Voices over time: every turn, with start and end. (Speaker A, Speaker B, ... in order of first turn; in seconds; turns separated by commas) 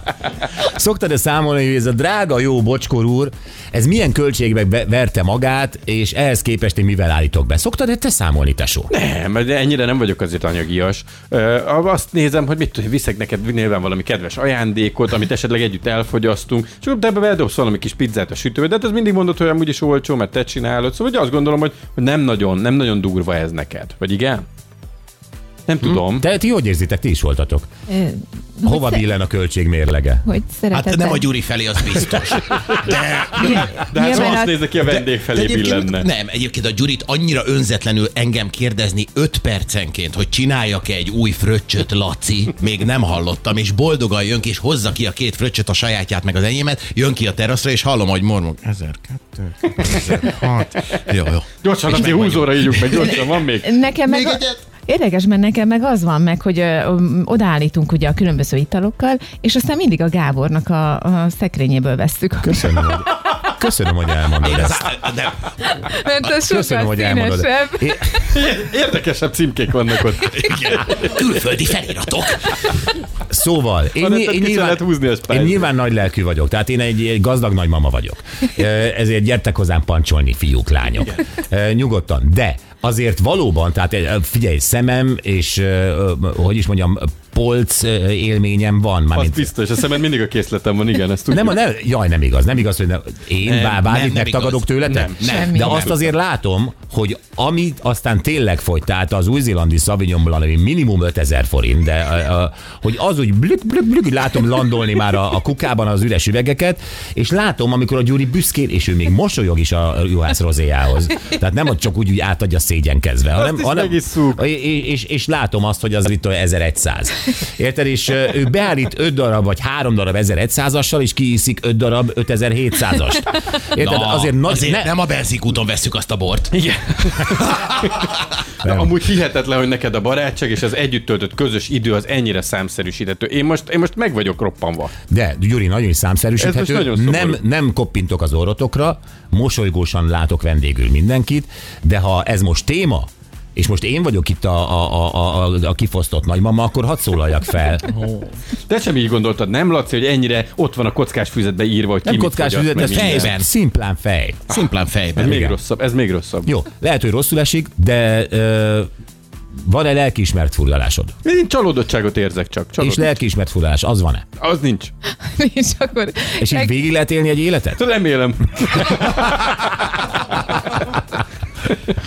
Speaker A: 0.6-8.9, Speaker B: 8.9-24.4, Speaker B: 25.7-26.3, Speaker A: 25.8-27.7, Speaker C: 27.9-29.0, Speaker A: 28.6-30.3, Speaker C: 30.2-31.2, Speaker D: 30.7-53.2, Speaker C: 33.4-34.7, Speaker B: 33.9-36.1, Speaker B: 51.6-53.7, Speaker C: 53.6-63.0, Speaker D: 54.0-54.6, Speaker A: 62.4-64.9, Speaker D: 64.4-65.5, Speaker C: 65.8-68.0, Speaker A: 66.4-68.1, Speaker B: 68.3-71.0, Speaker D: 70.2-72.5, Speaker A: 73.3-89.5, Speaker B: 74.0-75.7, Speaker B: 89.1-91.6, Speaker A: 91.3-124.9, Speaker D: 93.4-96.0, Speaker C: 95.2-95.8, Speaker B: 113.3-114.4, Speaker D: 123.8-126.5, Speaker B: 126.5-134.9, Speaker A: 135.1-148.0, Speaker B: 136.4-137.4, Speaker B: 148.7-153.3, Speaker A: 152.0-154.5, Speaker D: 152.8-153.5, Speaker D: 154.5-155.3, Speaker B: 155.2-156.5, Speaker A: 155.2-155.6, Speaker A: 156.4-158.9, Speaker A: 159.6-161.1, Speaker B: 161.2-163.1, Speaker A: 162.8-164.2, Speaker B: 164.4-164.9, Speaker C: 165.1-166.7, Speaker A: 166.4-167.8, Speaker B: 167.8-169.8